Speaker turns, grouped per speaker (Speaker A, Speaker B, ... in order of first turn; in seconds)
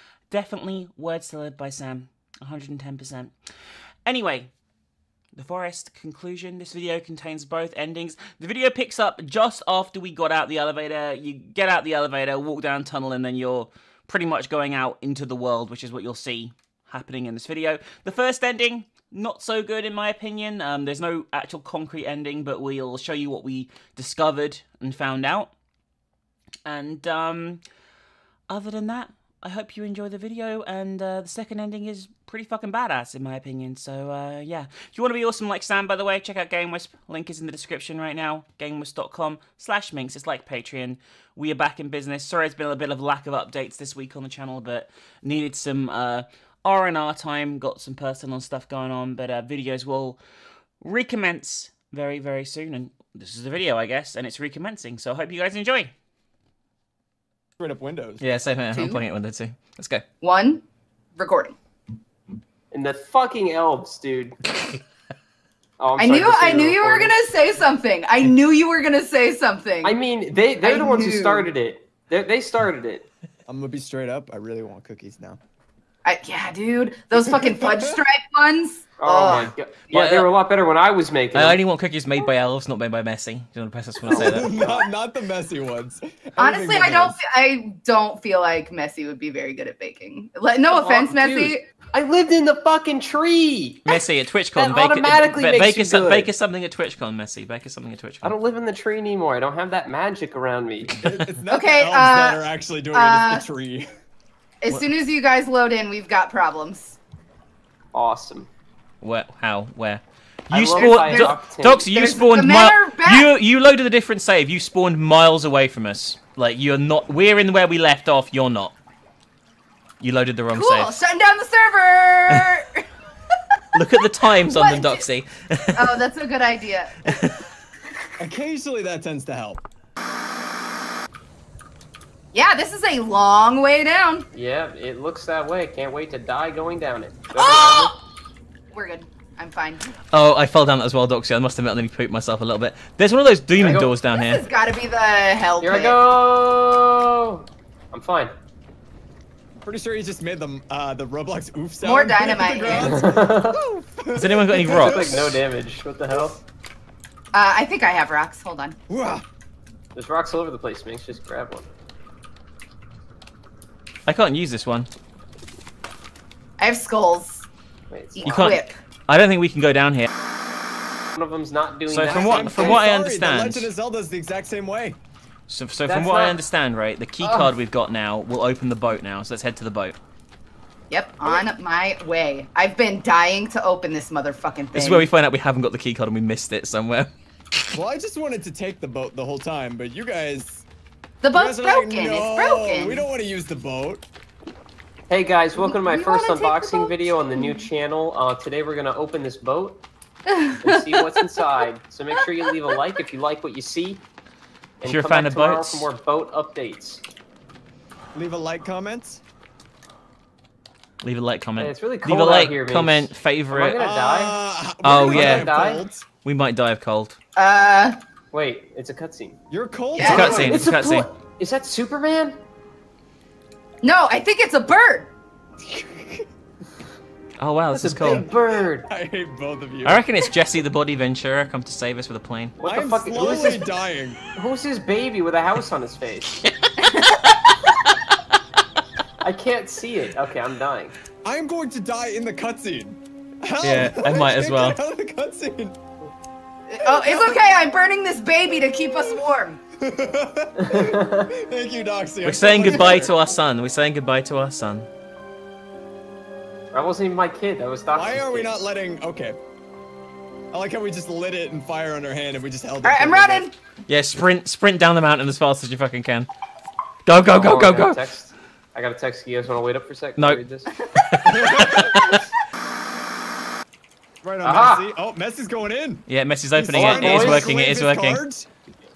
Speaker A: 0.3-3.3, 4.0-4.5, 5.3-25.5, 26.6-27.6, 28.5-50.2, 50.8-55.9, 58.3-59.5
Speaker B: 57.6-58.2, 73.5-75.4, 77.1-78.0, 84.1-87.2, 101.0-103.9, 128.2-129.6, 149.6-155.4, 158.9-159.2, 172.1-175.0, 187.7-190.6, 191.3-194.0, 208.1-209.2, 213.7-216.1, 219.5-220.6, 225.6-226.3, 228.7-230.0, 232.6-234.2, 241.2-245.8, 246.8-247.4, 249.8-253.1, 257.9-259.4, 260.5-263.4, 271.2-272.1, 274.2-278.5
Speaker C: 58.2-60.0, 79.9-80.3, 81.3-84.5, 93.8-98.3, 109.0-118.7, 120.0-120.9, 123.8-125.9, 140.1-144.4, 154.2-155.0, 164.1-164.9, 168.2-170.1, 171.9-173.6, 175.5-179.9, 184.7-187.1, 204.8-205.8, 211.0-213.7, 214.8-215.5, 216.2-217.2, 220.0-221.1, 227.4-228.2, 229.8-232.5, 243.6-244.7, 252.2-254.8, 263.9-266.3, 267.1-268.0, 271.1-272.2, 276.1-278.2
Speaker D: 58.7-59.0, 60.2-60.6, 61.1-61.5, 66.0-70.0, 70.6-71.5, 76.0-79.5, 86.4-91.6, 101.5-103.4, 104.6-107.0, 110.6-113.3, 120.5-122.8, 124.4-125.0, 125.8-127.1, 132.3-134.3, 137.3-137.9, 138.7-139.9, 144.1-146.0, 151.8-152.9, 157.3-158.8, 166.6-167.4, 168.2-168.8, 180.9-185.1, 191.2-193.1, 195.6-197.7, 200.3-201.2, 217.4-218.0, 220.0-220.4, 223.8-225.1, 236.8-237.1, 246.7-249.6, 262.8-263.5
Speaker E: 62.7-64.4, 65.8-67.2, 69.8-73.0, 79.0-81.6, 90.7-93.8, 94.5-96.3, 98.2-100.9, 107.9-108.5, 110.5-111.9, 134.3-137.9, 143.5-144.0, 145.6-148.3, 152.7-153.6, 154.7-156.4, 159.9-161.7, 167.9-168.6, 171.1-172.8, 175.8-176.4, 177.2-177.5, 195.1-199.8, 200.6-204.0, 204.8-207.0, 211.6-214.4, 214.9-215.8, 218.3-219.4, 220.0-222.4, 227.7-228.9, 232.6-233.7, 234.3-236.3, 239.2-240.9, 250.6-251.3, 256.7-258.5, 267.3-270.7, 274.4-274.9, 276.7-277.5